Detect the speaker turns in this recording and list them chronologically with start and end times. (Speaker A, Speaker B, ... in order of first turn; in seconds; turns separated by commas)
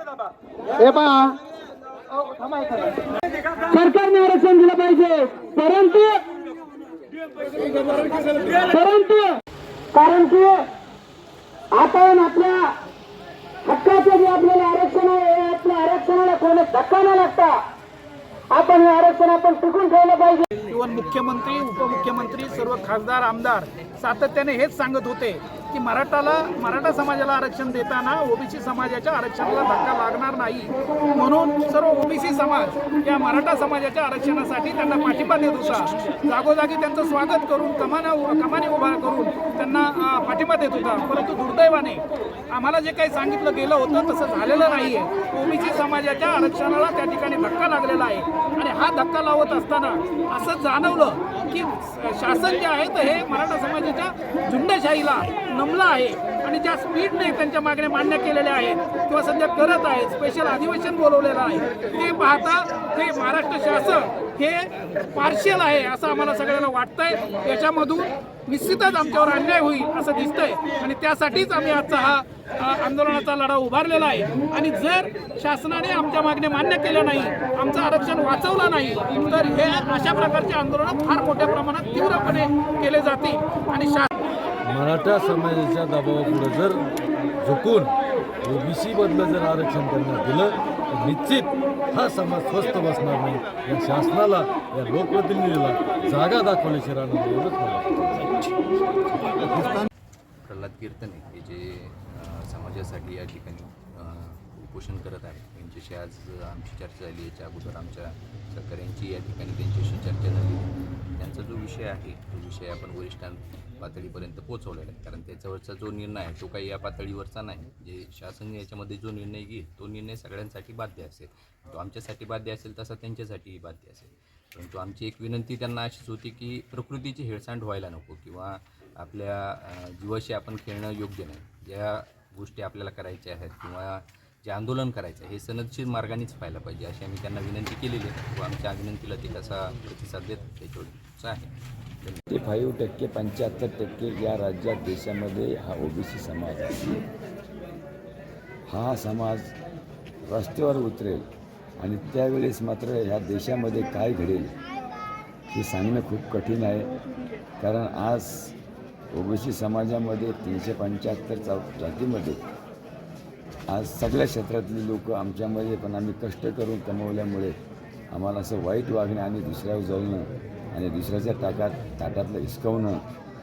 Speaker A: 0.8-1.3, Speaker A: 3.7-6.2, Speaker B: 8.1-8.5, Speaker A: 8.7-9.4, Speaker A: 9.9-10.7, Speaker A: 11.7-12.7, Speaker A: 13.6-17.6, Speaker A: 18.5-20.4, Speaker B: 20.6-84.1, Speaker C: 84.7-86.9, Speaker C: 87.4-98.5, Speaker C: 99.4-99.9, Speaker D: 100.4-110.6, Speaker D: 111.2-142.2, Speaker E: 142.3-147.0, Speaker E: 148.7-149.5, Speaker E: 150.3-151.2, Speaker E: 151.8-154.5, Speaker E: 155.5-156.9, Speaker E: 157.6-158.5, Speaker E: 159.1-162.4, Speaker E: 163.7-167.5, Speaker E: 168.1-173.0